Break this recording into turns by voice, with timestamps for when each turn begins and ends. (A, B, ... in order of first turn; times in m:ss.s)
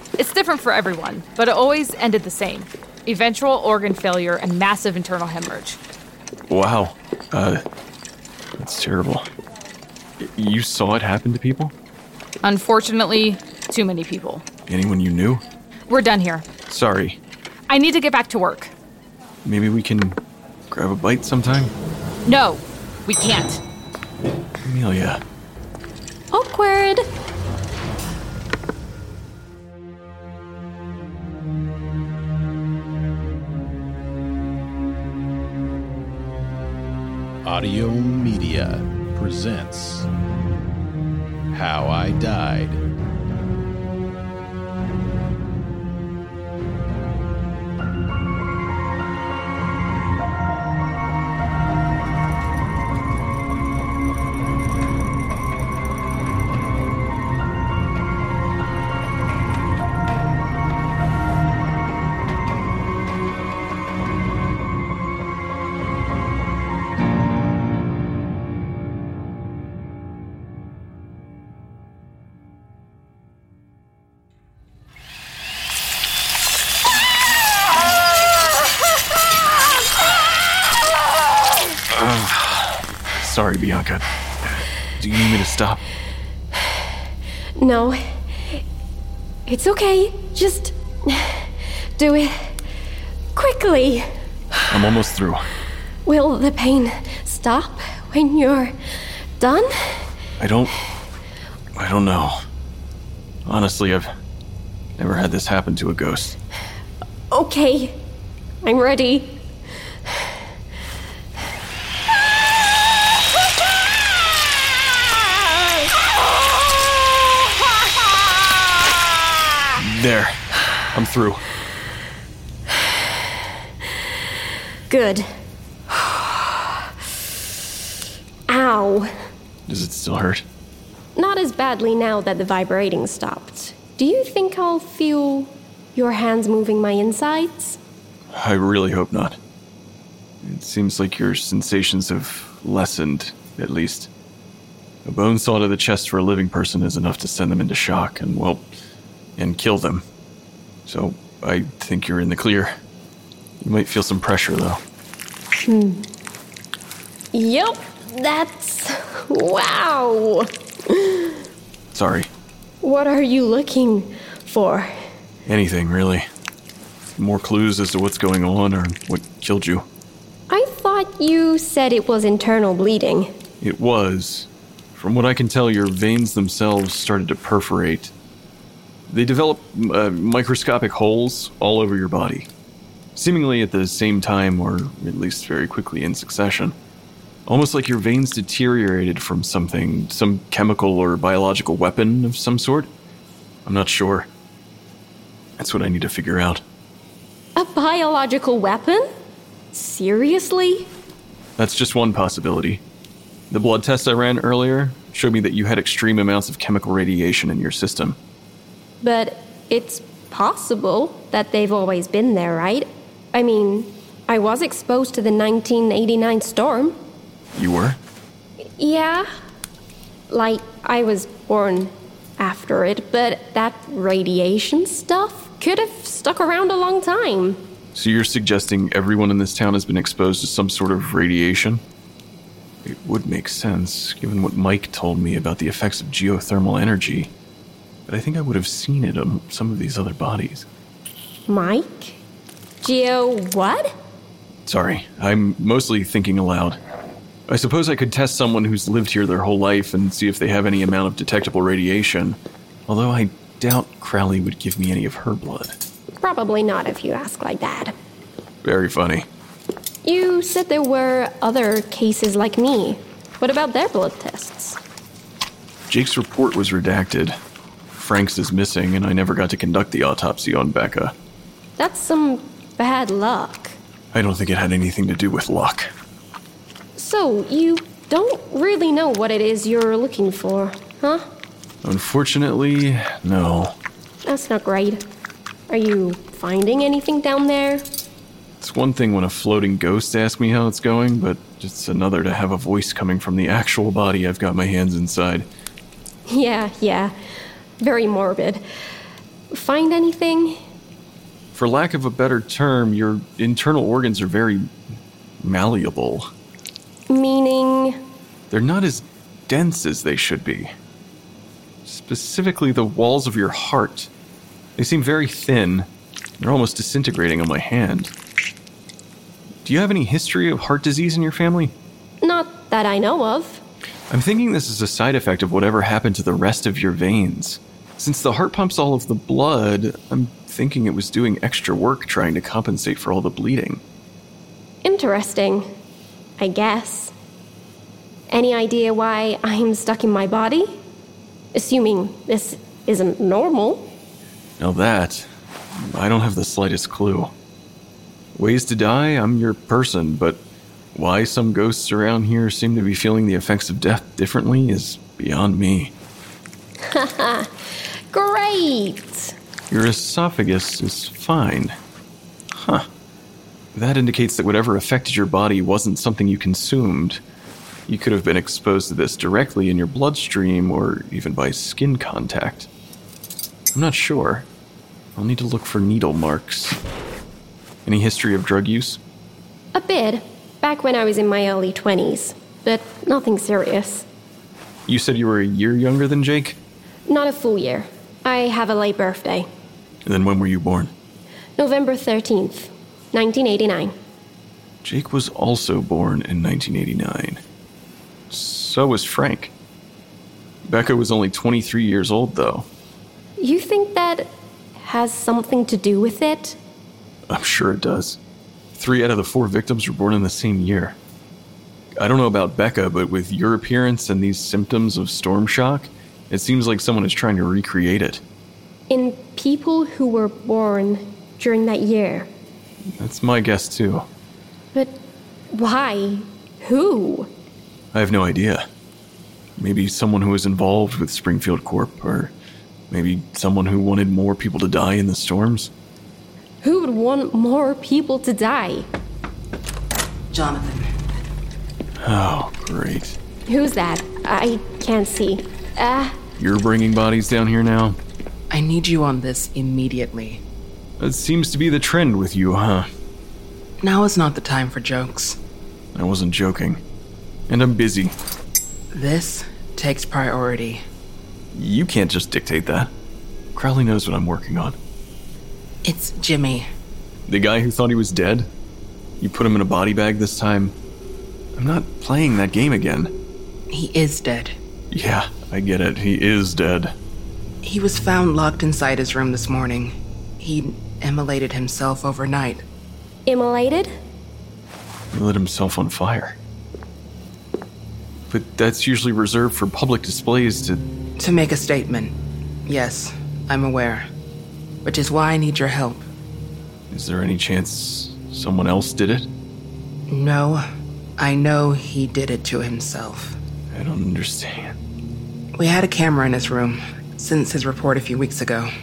0:00.2-0:05.8 A
0:06.5-0:07.6 B
0:08.6-0:09.3 B
0:10.2-0:11.7 B
0:12.4-0:14.4 A
0:14.7-0:15.4 B
0:15.9-0:16.5 A
0:16.7-0:17.2 B
0:17.7-0:18.7 A
0:19.4-0:20.2 B
0:20.7-0:21.7 B
0:22.2-0:23.6 A
0:24.6-0:25.2 B
0:26.3-0:27.0 C
0:37.4-0:40.1 D
0:41.5-0:42.8 D
1:21.9-1:25.8 B
1:27.6-1:28.0 C
1:29.5-1:32.5 C
1:33.3-1:34.1 C
1:34.7-1:35.4 B
1:36.0-1:38.7 C
1:39.4-1:40.0 C
1:40.4-1:40.7 B
1:41.7-1:42.4 B
1:43.4-1:44.1 B
1:45.0-1:46.4 B
1:47.3-1:48.0 C
1:48.6-1:49.4 C
1:59.8-2:00.4 B
2:00.9-2:01.4 B
2:04.9-2:05.3 C
2:05.9-2:06.7 C
2:08.5-2:09.1 C
2:09.7-2:10.4 B
2:11.2-2:17.8 C
2:18.3-2:19.4 B
2:20.4-2:24.1 B
2:25.0-2:28.7 B
2:29.4-2:30.0 B
2:30.8-2:32.8 B
2:33.6-2:34.8 B
2:35.6-2:36.1 C
2:37.3-2:41.4 C
2:41.9-2:42.3 B
2:42.8-2:44.9 C
2:45.4-2:46.2 B
2:47.1-2:49.8 B
2:50.5-2:53.3 C
2:53.6-2:58.1 B
2:59.1-3:02.5 B
3:03.1-3:06.8 B
3:07.5-3:12.9 B
3:13.6-3:14.3 B
3:15.6-3:16.6 B
3:17.6-3:19.1 C
3:19.7-3:20.9 C
3:21.6-3:22.8 B
3:23.5-3:28.2 B
3:29.0-3:37.0 C
3:37.5-3:38.0 B
3:38.8-3:39.3 C
3:40.3-3:47.6 C
3:47.9-3:51.8 B
3:52.8-3:57.3 B
3:58.1-4:00.6 B
4:01.5-4:02.2 C
4:02.8-4:03.9 C
4:04.6-4:06.8 B
4:07.5-4:15.8 B
4:16.2-4:17.9 C
4:18.6-4:19.3 B
4:20.0-4:24.8 C
4:25.9-4:27.4 B
4:27.9-4:31.1 B
4:31.8-4:33.7 C
4:34.1-4:35.9 B
4:37.0-4:41.2 C
4:41.8-4:43.7 B
4:44.2-4:45.0 C
4:45.7-4:47.8 C
4:48.6-4:55.5 B
4:56.3-4:57.1 C
4:57.8-4:58.6 C
4:59.5-5:00.6 C
5:01.5-5:04.7 B
5:05.4-5:06.3 B
5:07.1-5:08.0 C
5:08.5-5:10.7 B
5:11.8-5:14.1 B
5:14.8-5:15.9 B
5:16.4-5:18.1 B
5:19.6-5:21.7 B
5:22.2-5:23.6 C
5:24.1-5:33.8 B
5:34.8-5:35.7 C
5:36.4-5:37.1 C
5:38.3-5:40.8 C
5:41.5-5:43.9 C
5:44.6-5:47.3 B
5:48.3-5:50.4 B
5:50.9-5:55.9 B
5:56.8-5:57.5 C
5:58.1-5:59.3 C
5:59.7-6:01.8 B
6:02.5-6:02.9 B
6:03.7-6:07.2 B
6:07.9-6:12.7 B
6:13.7-6:14.5 B
6:15.1-6:16.8 B
6:17.8-6:19.0 B
6:19.7-6:24.0 C
6:24.9-6:26.6 B
6:27.1-6:29.5 C
6:30.0-6:30.9 B
6:31.6-6:33.9 C
6:34.8-6:37.4 B
6:38.3-6:39.5 B
6:40.6-6:42.7 B
6:43.4-6:46.6 C
6:47.3-6:48.2 B
6:48.7-6:51.0 B
6:52.0-6:58.2 B
6:58.9-7:02.3 C
7:02.9-7:04.0 B
7:05.5-7:07.3 C
7:07.9-7:08.6 B
7:09.6-7:12.3 B
7:12.9-7:15.7 B
7:16.6-7:18.8 C
7:20.3-7:20.9 E
7:22.0-7:23.2 B
7:23.5-7:26.2 C
7:26.4-7:28.0 B
7:28.5-7:30.4 E
7:31.0-7:32.9 B
7:33.8-7:35.4 E
7:35.9-7:36.8 B
7:37.5-7:38.1 B
7:38.9-7:40.8 E
7:41.5-7:42.9 B
7:43.5-7:44.8 B
7:45.8-7:46.7 E
7:47.3-7:48.5 B
7:49.2-7:50.7 B
7:51.5-7:53.1 B
7:53.7-7:54.5 E
7:54.9-7:56.9 B
7:57.6-8:02.6 E
8:03.3-8:03.9 C
8:05.1-8:06.4 B
8:08.3-8:10.8 B
8:11.2-8:12.1 E
8:12.7-8:14.1 E
8:14.8-8:16.0 E
8:16.9-8:19.3 B
8:20.1-8:20.6 E
8:21.2-8:23.4 E
8:23.7-8:24.8 B
8:25.6-8:28.7 E